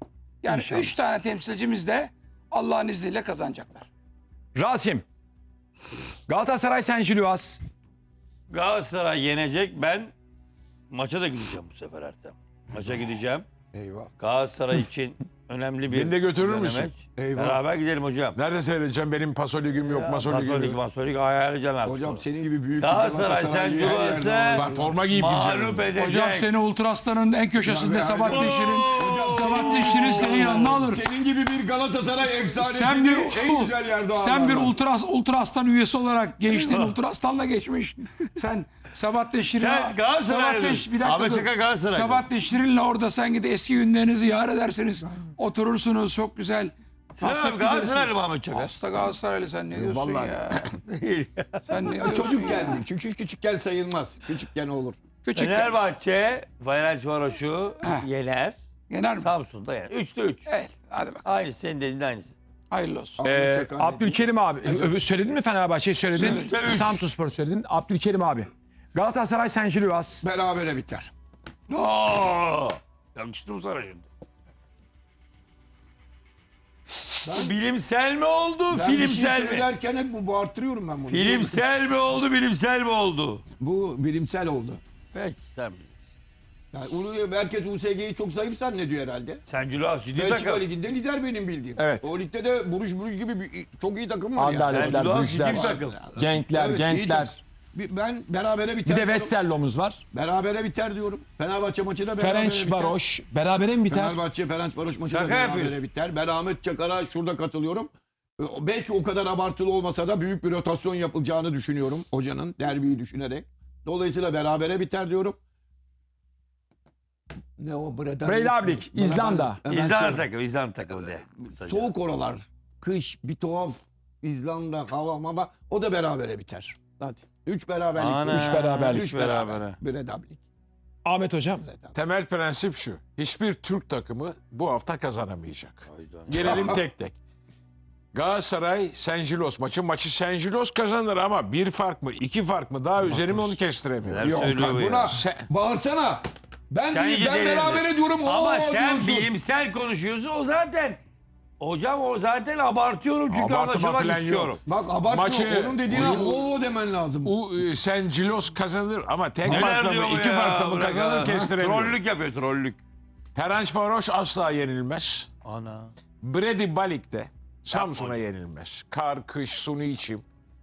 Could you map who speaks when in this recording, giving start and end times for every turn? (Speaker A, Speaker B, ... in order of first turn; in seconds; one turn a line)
Speaker A: 0.4-3.9
Speaker B: 0.5-0.9
Speaker B: 4.6-5.0
Speaker B: 6.3-7.6
Speaker C: 8.5-10.1
Speaker C: 10.9-13.5
Speaker D: 13.7-14.1
Speaker C: 14.2-18.4
Speaker E: 15.9-16.9
Speaker D: 17.2-17.6
Speaker E: 18.4-20.8
Speaker C: 19.8-22.2
Speaker D: 21.8-24.9
Speaker C: 22.8-26.5
Speaker E: 24.5-25.9
Speaker A: 25.9-31.0
Speaker D: 27.6-34.8
Speaker C: 28.2-30.8
Speaker A: 32.5-50.7
Speaker C: 36.6-37.0
Speaker C: 39.6-42.2
Speaker C: 47.2-48.7
Speaker E: 49.7-50.7
Speaker C: 50.8-52.1
Speaker A: 51.7-52.8
Speaker D: 52.0-55.0
Speaker A: 55.2-55.8
Speaker C: 55.4-58.6
Speaker A: 58.9-59.3
Speaker C: 59.2-60.5
Speaker A: 60.5-61.2
Speaker C: 61.2-62.4
Speaker A: 62.7-63.2
Speaker D: 63.2-65.0
Speaker B: 63.2-70.2
Speaker A: 66.1-66.6
Speaker C: 66.1-67.0
Speaker D: 70.2-71.1
Speaker C: 71.7-74.0
Speaker C: 77.2-79.7
Speaker D: 77.2-77.6
Speaker D: 78.7-81.6
Speaker C: 81.1-83.4
Speaker D: 83.6-84.8
Speaker C: 85.1-86.0
Speaker D: 86.7-89.4
Speaker C: 89.5-90.7
Speaker D: 90.1-99.3
Speaker B: 91.8-92.1
Speaker B: 94.4-97.4
Speaker C: 94.7-96.0
Speaker B: 98.9-100.0
Speaker D: 100.1-103.0
Speaker B: 102.2-104.2
Speaker D: 103.9-115.4
Speaker C: 105.1-105.8
Speaker D: 117.6-120.3
Speaker B: 118.2-119.6
Speaker C: 119.7-121.9
Speaker D: 121.5-130.4
Speaker C: 128.0-129.8
Speaker B: 128.3-129.1
Speaker B: 131.1-131.7
Speaker D: 131.7-131.9
Speaker E: 131.9-137.2
Speaker C: 135.9-136.8
Speaker D: 136.4-136.8
Speaker E: 138.1-145.5
Speaker C: 144.0-145.1
Speaker D: 144.2-149.3
Speaker C: 146.9-151.0
Speaker C: 151.6-154.6
Speaker E: 153.3-154.6
Speaker D: 154.7-157.3
Speaker E: 155.1-156.4
Speaker E: 157.2-162.0
Speaker D: 159.4-159.7
Speaker C: 159.4-162.8
Speaker D: 161.2-161.5
Speaker E: 163.3-165.3
Speaker C: 165.4-165.9
Speaker E: 166.2-170.2
Speaker C: 167.7-168.2